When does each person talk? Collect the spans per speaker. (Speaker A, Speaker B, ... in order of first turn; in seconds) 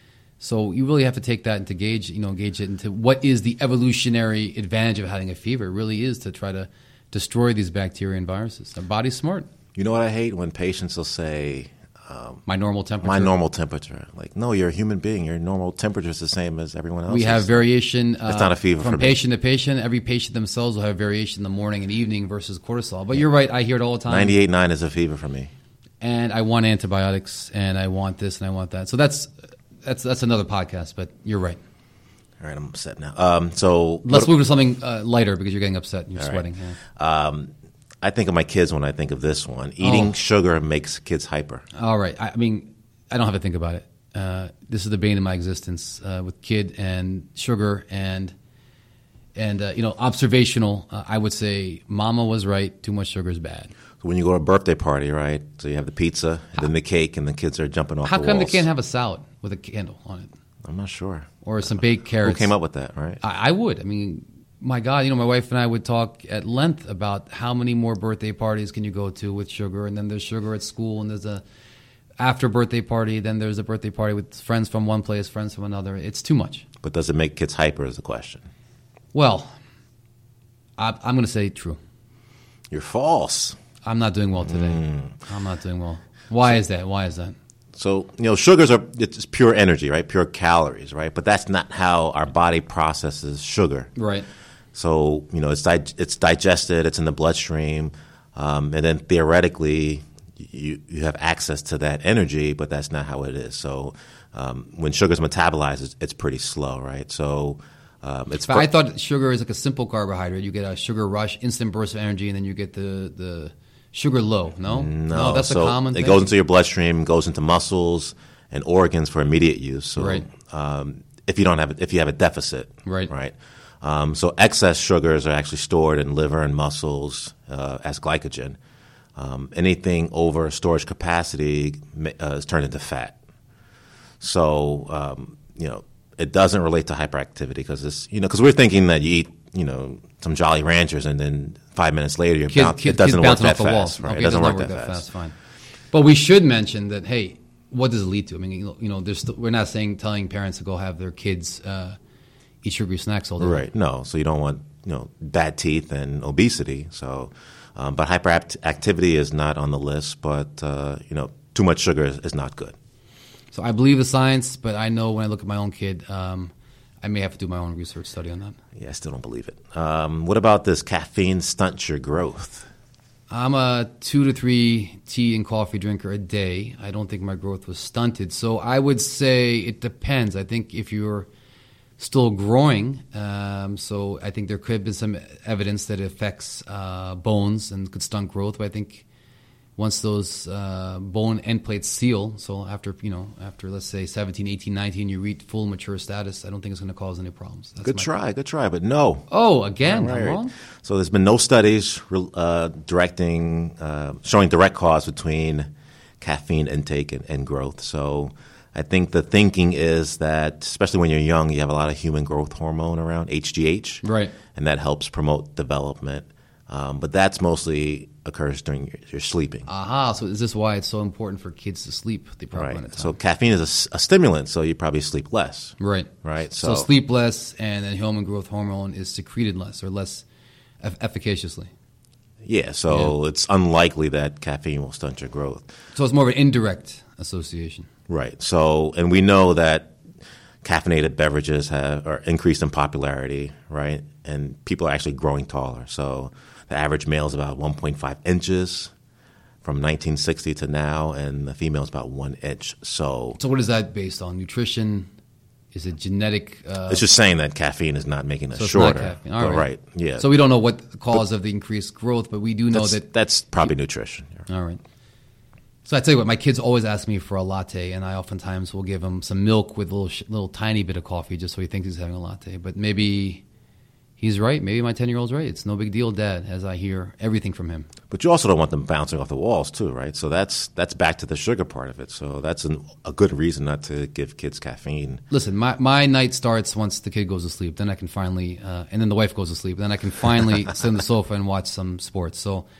Speaker A: 0.4-9.5, 12.5-13.3, 17.1-24.4, 26.0-29.3, 29.8-31.6, 34.0-36.8, 39.8-40.1, 41.7-48.3, 49.4-53.7, 58.0-60.3, 61.4-62.5, 63.2-71.4, 72.2-76.6, 79.1-79.5, 80.8-81.8, 83.8-87.3, 94.0-94.3, 108.5-116.3, 120.0-120.3, 122.8-123.1, 142.5-145.3, 145.9-152.0, 152.6-153.6, 163.5-168.6, 173.3-181.3, 182.0-189.0, 189.8-198.1, 199.3-200.5, 214.0-214.3, 219.7-223.1, 225.8-230.2, 230.8-231.7, 235.9-237.9, 253.4-255.1, 255.7-257.0, 258.5-263.1, 264.5-264.8, 265.8-273.4, 274.2-277.9, 285.3-292.6
Speaker B: 9.8-12.4, 13.0-17.6, 18.3-19.2, 24.1-25.5, 32.4-34.3, 36.2-36.4, 37.0-41.6, 54.0-58.7, 60.6-63.2, 76.8-78.4, 82.7-83.6, 84.5-85.1, 87.7-93.9, 94.7-108.7, 114.7-128.6, 129.2-133.2, 134.2-145.0, 153.4-162.8, 168.8-172.7, 197.8-199.3, 199.8-205.7, 206.2-219.7, 222.5-226.9, 232.4-235.7, 238.1-239.9, 240.6-248.9, 249.6-253.4, 256.9-260.3, 262.7-264.4, 278.1-285.2